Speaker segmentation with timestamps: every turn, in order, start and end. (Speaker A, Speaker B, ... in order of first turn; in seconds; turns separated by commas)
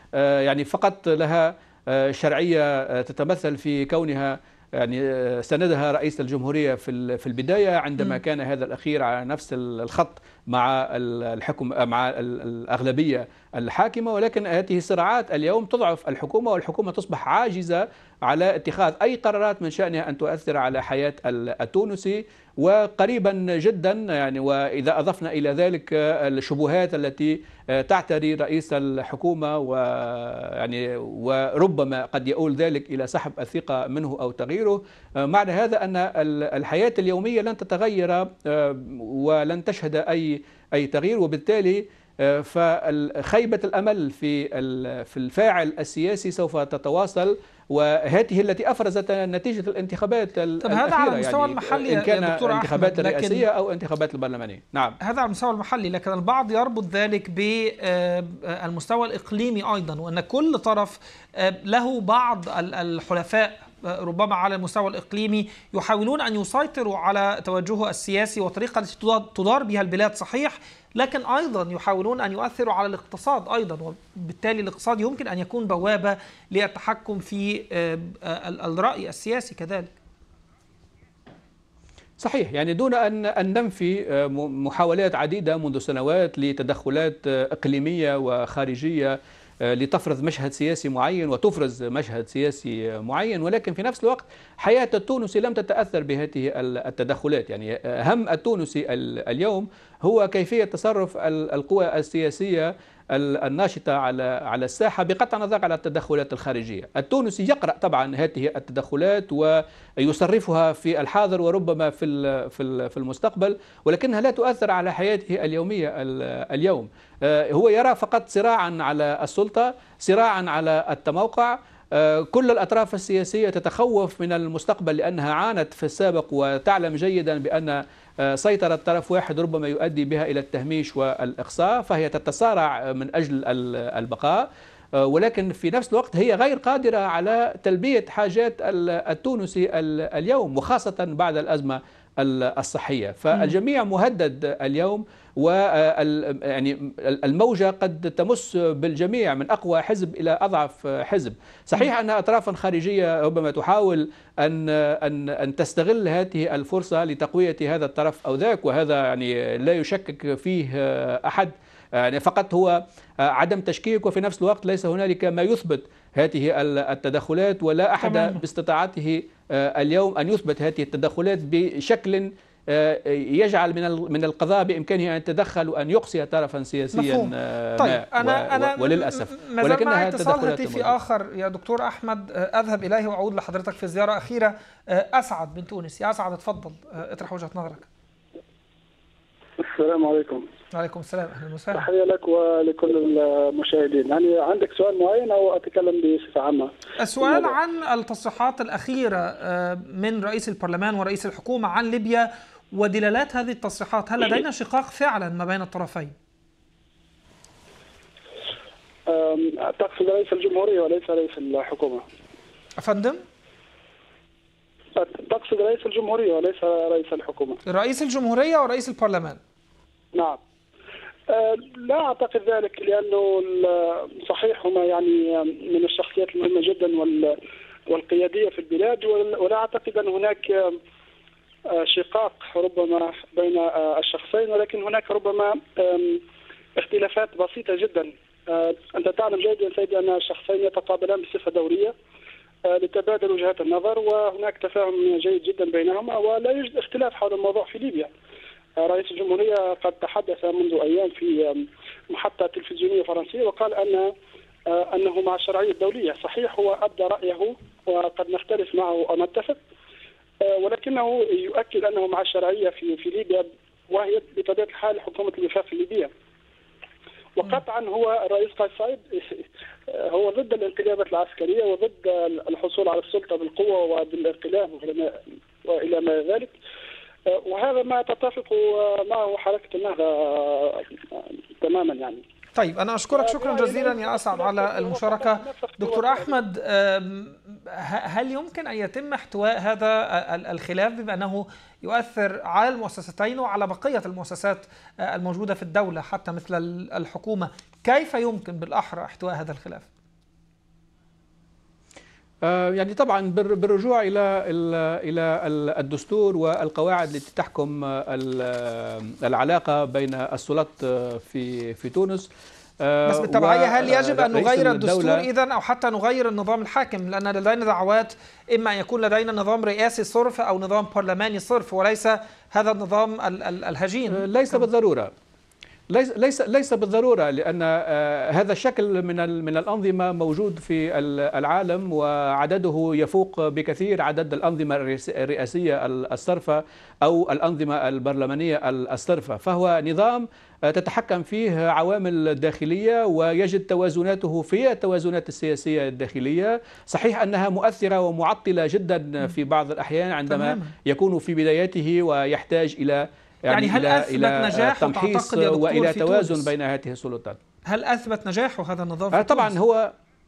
Speaker A: 0.2-55.0, Speaker B: 50.6-53.5, Speaker B: 55.0-79.9, Speaker A: 82.2-89.2, Speaker A: 89.7-134.5, Speaker A: 135.0-180.9, Speaker B: 168.0-168.4, Speaker B: 176.9-187.9, Speaker C: 189.6-190.4, Speaker B: 190.7-191.9, Speaker C: 191.7-197.5, Speaker B: 197.0-206.1, Speaker C: 209.1-212.0, Speaker B: 212.8-213.2, Speaker C: 215.0-217.6, Speaker B: 217.7-219.4, Speaker C: 221.3-227.3, Speaker C: 227.9-230.8, Speaker C: 231.7-236.2, Speaker C: 236.8-241.9, Speaker C: 242.7-248.1, Speaker C: 248.8-254.1, Speaker C: 254.7-259.6, Speaker C: 260.5-266.1, Speaker C: 267.4-276.5, Speaker C: 277.4-282.2, Speaker B: 282.6-299.9, Speaker C: 283.1-286.4, Speaker A: 302.4-312.3, Speaker A: 312.8-315.2, Speaker B: 313.1-324.6, Speaker A: 324.1-325.1, Speaker A: 325.9-357.4, Speaker B: 350.3-350.7, Speaker B: 353.5-356.5, Speaker B: 357.7-359.6, Speaker A: 359.1-359.9